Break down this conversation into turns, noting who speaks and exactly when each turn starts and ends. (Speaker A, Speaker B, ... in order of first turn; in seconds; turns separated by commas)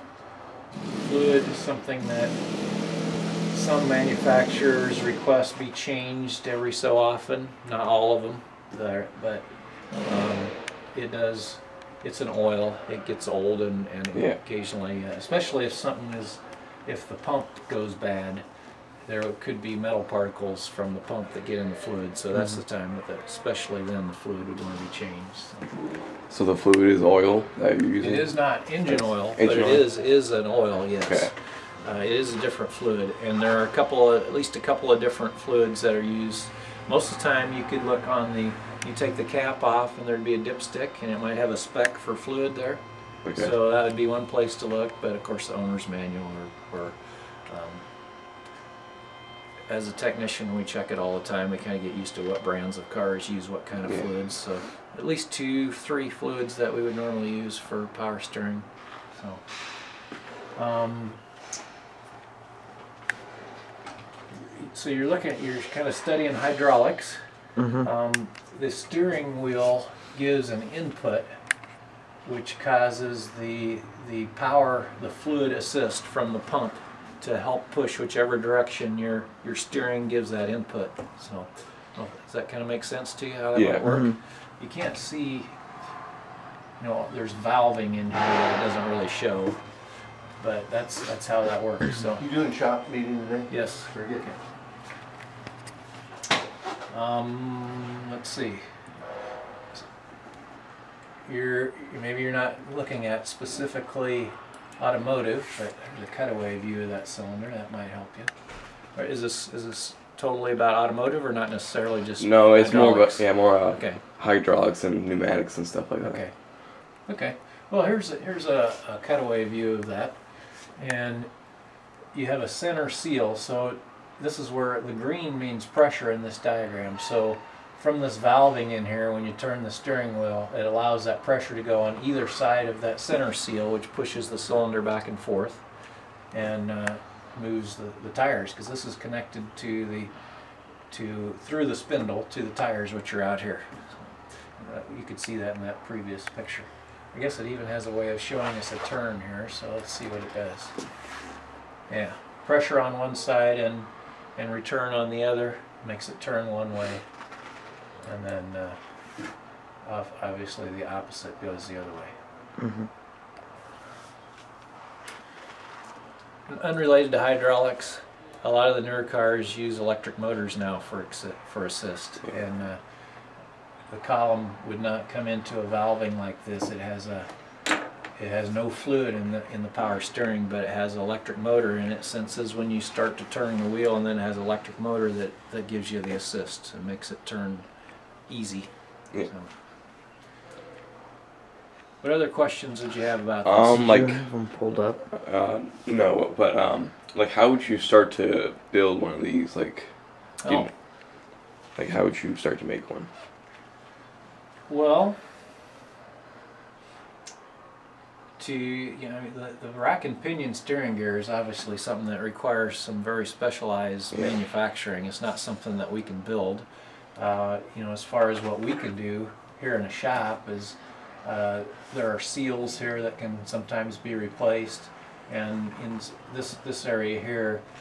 Speaker A: 0.9-2.4, Speaker A: 3.5-18.4, Speaker B: 14.1-14.4, Speaker A: 19.1-25.7, Speaker B: 26.3-28.3, Speaker A: 28.0-42.8, Speaker B: 29.2-29.9, Speaker B: 31.0-31.3, Speaker B: 43.2-43.5, Speaker A: 43.3-47.8, Speaker A: 49.7-59.5, Speaker A: 60.5-61.2, Speaker A: 64.3-67.2, Speaker C: 67.6-67.9, Speaker A: 67.8-71.3, Speaker A: 72.2-85.6, Speaker B: 83.5-83.8, Speaker C: 83.8-84.1, Speaker A: 86.8-89.6, Speaker A: 90.4-92.3, Speaker D: 92.2-94.2, Speaker A: 93.5-94.4, Speaker A: 96.9-98.8, Speaker A: 101.2-108.3, Speaker A: 108.9-114.0, Speaker B: 112.2-116.2, Speaker A: 116.0-116.3, Speaker A: 117.1-120.2, Speaker A: 120.8-121.3, Speaker A: 122.1-135.6, Speaker A: 136.3-140.1, Speaker A: 140.9-150.8, Speaker A: 151.9-157.0, Speaker A: 158.0-158.8, Speaker A: 159.8-162.1, Speaker C: 162.6-162.9, Speaker A: 166.5-172.8, Speaker A: 173.9-177.3, Speaker A: 178.2-187.7, Speaker A: 188.3-189.5, Speaker A: 192.0-194.1, Speaker B: 193.4-194.2, Speaker C: 193.9-195.0, Speaker B: 195.1-199.9, Speaker A: 200.4-200.7, Speaker B: 200.4-200.7, Speaker B: 201.8-203.1, Speaker A: 204.7-205.2, Speaker A: 208.4-227.6